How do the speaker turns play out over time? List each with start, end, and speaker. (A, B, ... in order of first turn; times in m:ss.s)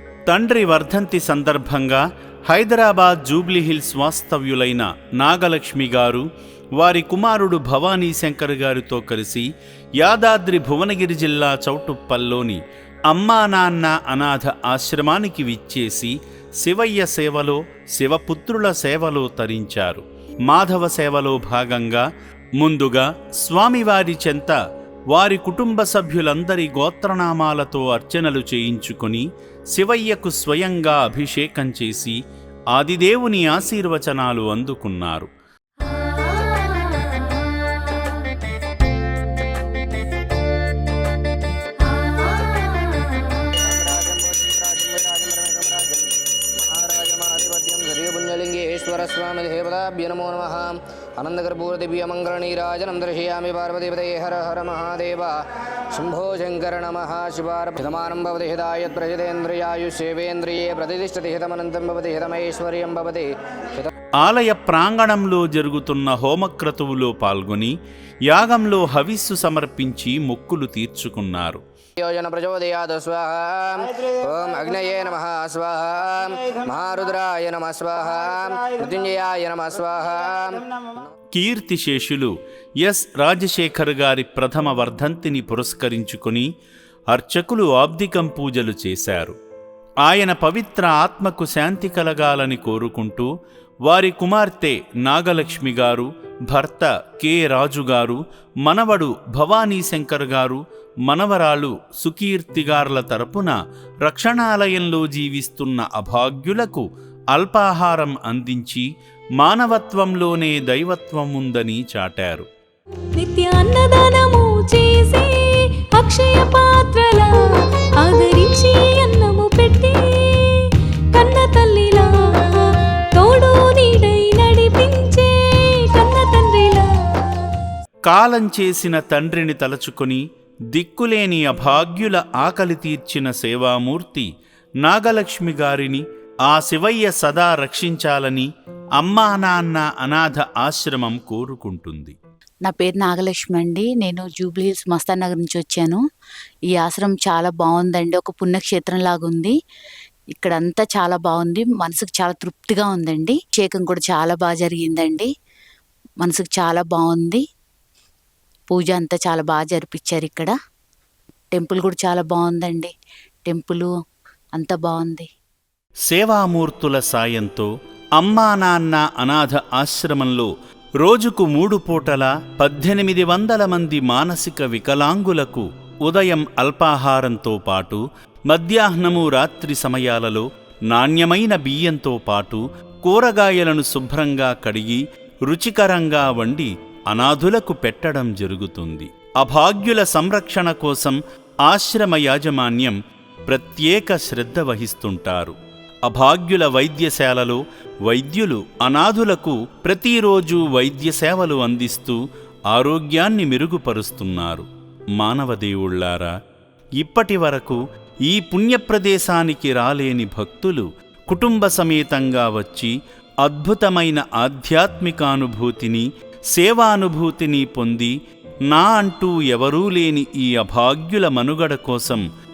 0:00.3-0:06.3 A
0:06.8-0:09.5 A
0:10.0-0:22.0 A
0:22.6-0:24.6 A
0:25.1-0:32.2 A
0:32.7-0:35.3 A
0:36.3-0:37.2 B
0:43.4-1:03.9 C
1:04.2-1:07.7 A
1:08.3-1:11.6 A
1:12.0-1:21.1 C
1:21.3-1:26.5 A
1:27.1-1:29.4 A
1:30.0-1:33.3 A
1:33.9-1:48.9 A
1:49.4-1:52.5 A
1:53.2-2:07.5 B
2:08.1-2:14.3 A
2:14.8-2:18.5 A
2:19.0-2:22.2 A
2:22.7-2:26.0 D
2:26.8-2:29.6 D
2:30.4-2:35.3 D
2:36.2-2:37.4 D
2:38.7-2:40.5 D
2:41.5-2:42.9 D
2:43.5-2:43.9 D
2:44.6-2:45.3 D
2:46.1-3:13.0 A
3:13.5-3:22.2 A
3:22.7-3:24.7 A
3:25.2-3:26.3 A
3:27.0-3:38.1 A
3:38.7-3:42.2 A